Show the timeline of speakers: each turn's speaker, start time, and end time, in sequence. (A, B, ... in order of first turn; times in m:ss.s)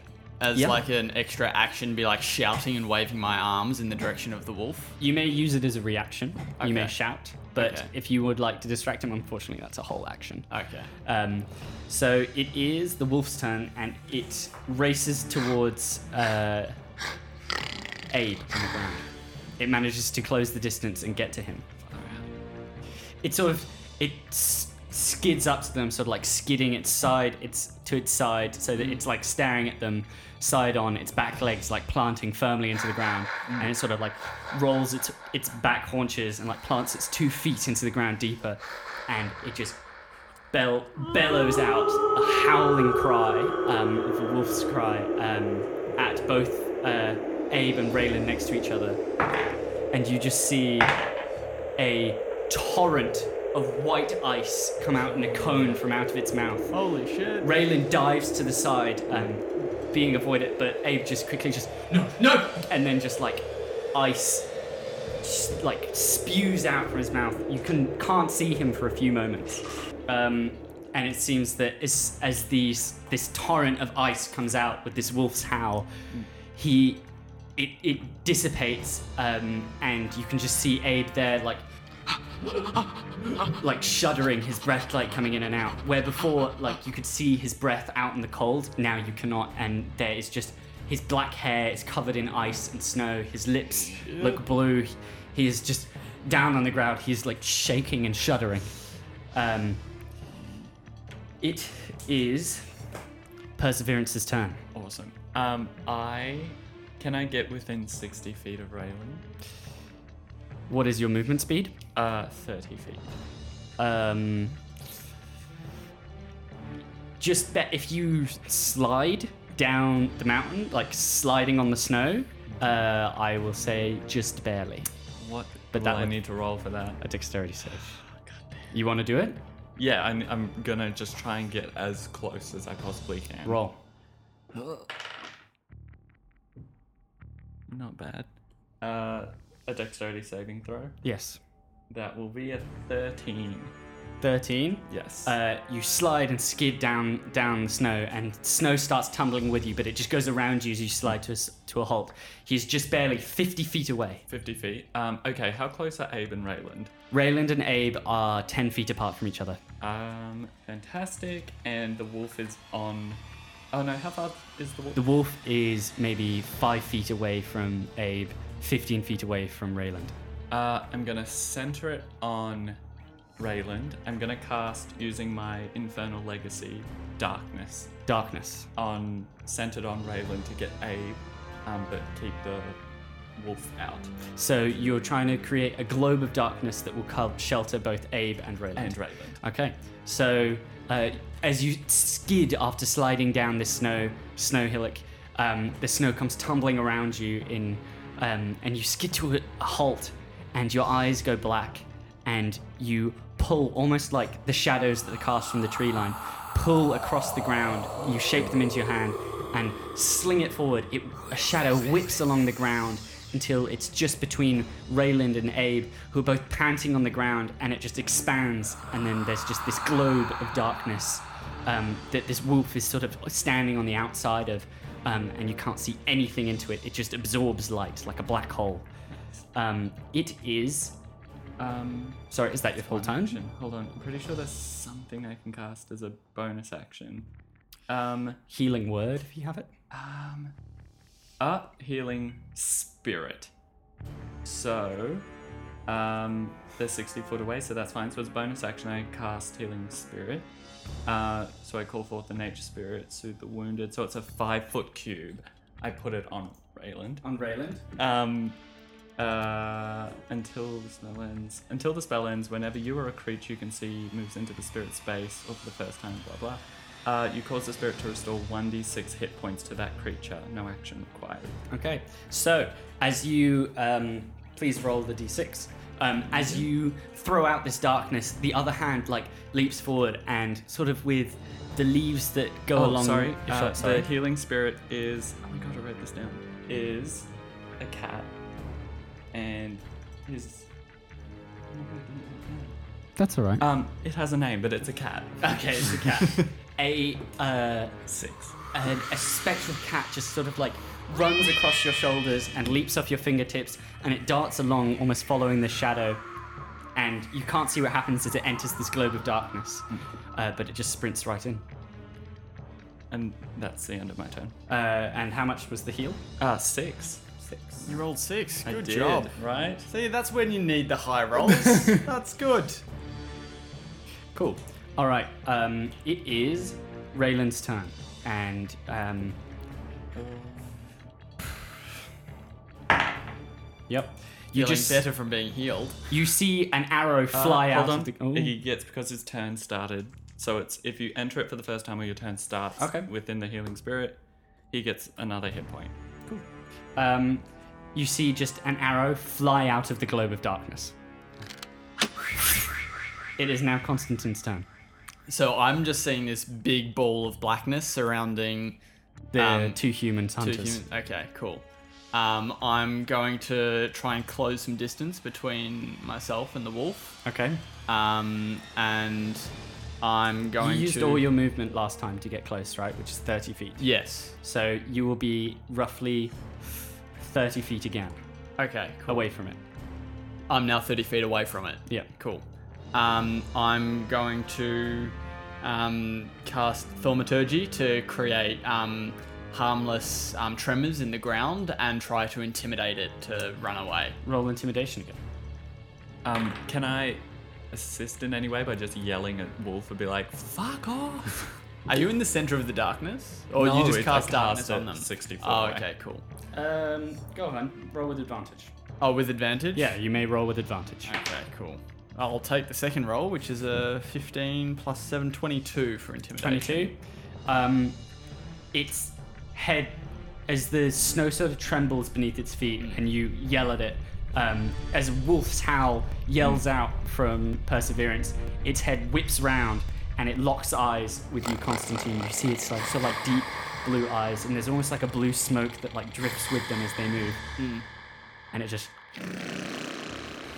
0:00.4-0:05.0 A
0:00.5-0:00.8 B
0:05.0-0:10.5 B
0:06.6-0:06.9 A
0:07.6-0:07.9 A
0:10.5-0:10.9 A
0:11.0-0:16.8 B
0:18.1-0:19.0 B
0:19.6-0:21.7 B
0:21.8-0:22.3 C
0:23.2-0:39.8 B
0:40.5-0:49.0 B
0:49.9-0:50.9 B
0:51.8-0:56.7 B
0:56.7-0:57.5 A
0:57.4-1:04.5 B
1:05.2-1:15.9 B
1:16.5-1:21.6 B
1:23.5-1:38.7 B
1:39.3-1:39.8 B
1:41.4-1:42.7 B
1:43.6-1:44.6 B
1:44.7-1:49.2 C
1:50.7-1:51.8 B
1:51.9-1:53.2 C
1:53.8-1:54.6 B
1:57.2-2:04.9 B
2:05.2-2:07.0 C
2:05.7-2:06.2 B
2:07.0-2:08.0 B
2:08.7-2:09.4 B
2:09.8-2:13.6 C
2:13.4-2:13.8 B
2:14.5-2:14.8 C
2:17.7-2:18.3 C
2:18.8-2:21.0 C
2:21.0-2:21.4 B
2:21.9-2:23.7 C
2:24.2-2:34.2 B
2:24.9-2:25.3 C
2:34.3-2:36.9 C
2:37.1-2:39.6 B
2:39.8-2:43.2 C
2:43.7-2:45.0 C
2:44.9-2:50.2 B
2:50.5-2:52.8 C
2:53.4-2:57.9 C
2:58.1-2:58.7 B
2:58.8-3:02.8 C
3:03.4-3:04.1 C
3:04.3-3:48.9 B
3:08.8-3:09.4 C
3:49.5-3:51.0 B
3:51.6-3:57.3 C
3:52.3-3:53.4 B
3:57.9-3:58.4 C
3:58.5-3:59.7 B
3:59.9-4:00.6 C
4:01.4-4:03.5 C
4:04.4-4:05.2 C
4:05.9-4:10.5 C
4:11.0-4:17.2 C
4:17.2-4:17.8 B
4:18.0-4:18.6 C
4:19.2-4:31.6 C
4:31.7-4:44.1 B
4:42.7-4:48.3 C
4:49.3-4:50.7 C
4:51.7-4:52.7 C
4:53.2-4:53.6 B
4:53.6-4:56.0 C
4:55.4-4:58.0 B
4:58.1-4:58.6 C
4:58.7-5:06.2 B
5:07.0-5:11.6 B
5:13.1-5:14.6 C
5:14.7-5:16.2 B
5:16.4-5:17.3 C
5:17.4-5:17.8 B
5:17.8-5:22.8 A
5:18.6-5:19.9 C
5:24.3-5:29.4 B
5:30.1-5:30.9 C
5:33.9-5:35.0 B
5:34.5-5:36.0 A
5:36.1-5:38.5 B
5:37.3-5:44.2 C
5:42.8-5:43.1 B
5:44.7-5:45.9 C
5:47.0-5:50.9 B
5:53.4-5:54.6 B
5:55.3-5:58.8 A
5:59.3-6:00.8 B
5:59.4-5:59.8 A
6:00.4-6:07.2 A
6:07.2-6:07.6 B
6:07.9-6:11.3 A
6:10.6-6:13.8 B
6:13.8-6:14.4 A
6:14.4-6:16.4 B
6:17.2-6:18.2 B
6:18.6-6:19.3 A
6:19.1-6:19.6 B
6:20.5-6:34.2 A
6:34.2-6:35.2 B
6:36.2-6:41.5 C
6:41.8-6:46.2 A
6:43.5-6:45.8 C
6:46.5-6:48.7 B
6:49.0-6:49.9 A
6:49.7-6:51.1 B
6:51.0-6:56.9 A
6:56.4-6:58.0 B
6:58.7-7:17.4 B
7:17.6-7:17.8 A
7:18.5-7:18.9 B